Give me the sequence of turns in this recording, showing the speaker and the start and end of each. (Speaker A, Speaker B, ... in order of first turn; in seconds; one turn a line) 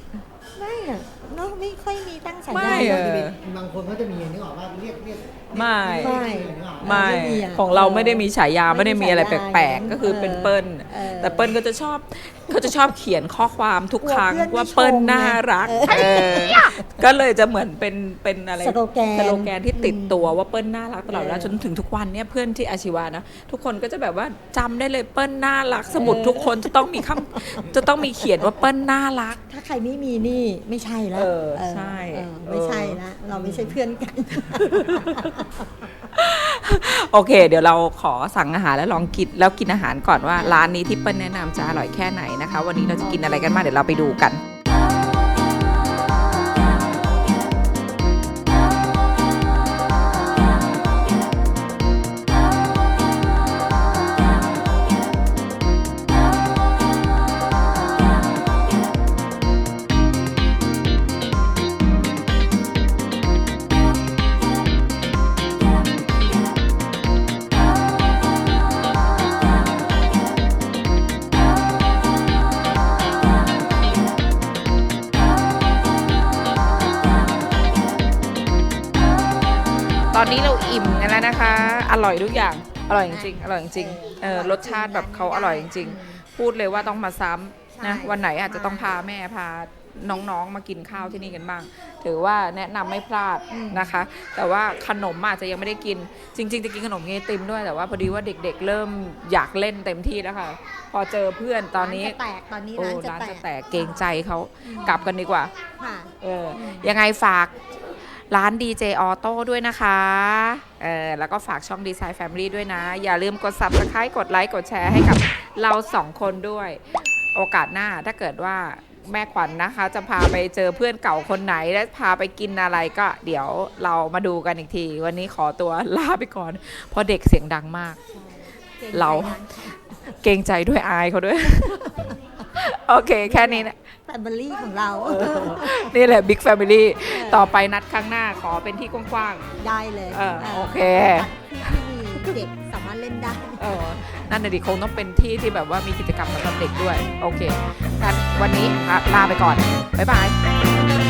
Speaker A: 0.6-3.1
Speaker B: 2.5-3.4
Speaker C: 2.9-6.9
Speaker B: 5.5-6.2
Speaker A: 5.9-11.6
Speaker B: 6.8-29.4
Speaker A: 14.0-17.0
Speaker A: 18.6-20.4
Speaker A: 21.1-21.6
Speaker A: 25.9-27.8
Speaker A: 29.4-35.6
Speaker B: 31.1-33.8
Speaker B: 34.4-35.5
Speaker B: 36.0-44.4
Speaker A: 40.4-40.7
Speaker A: 43.0-43.8
Speaker B: 80.1-102.2
Speaker A: 83.0-86.2
Speaker A: 87.7-88.9
Speaker A: 90.9-91.4
Speaker A: 93.5-94.0
Speaker A: 101.8-104.1
Speaker B: 102.8-105.5
Speaker A: 104.6-105.1
Speaker A: 105.8-106.9
Speaker B: 106.2-128.0
Speaker A: 128.1-130.2
Speaker B: 128.9-129.4
Speaker B: 130.1-131.9
Speaker A: 131.5-132.4
Speaker B: 132.5-133.8
Speaker A: 133.2-135.9
Speaker B: 135.0-139.4
Speaker A: 137.0-137.5
Speaker A: 139.6-143.8
Speaker B: 140.1-141.3
Speaker B: 143.6-150.4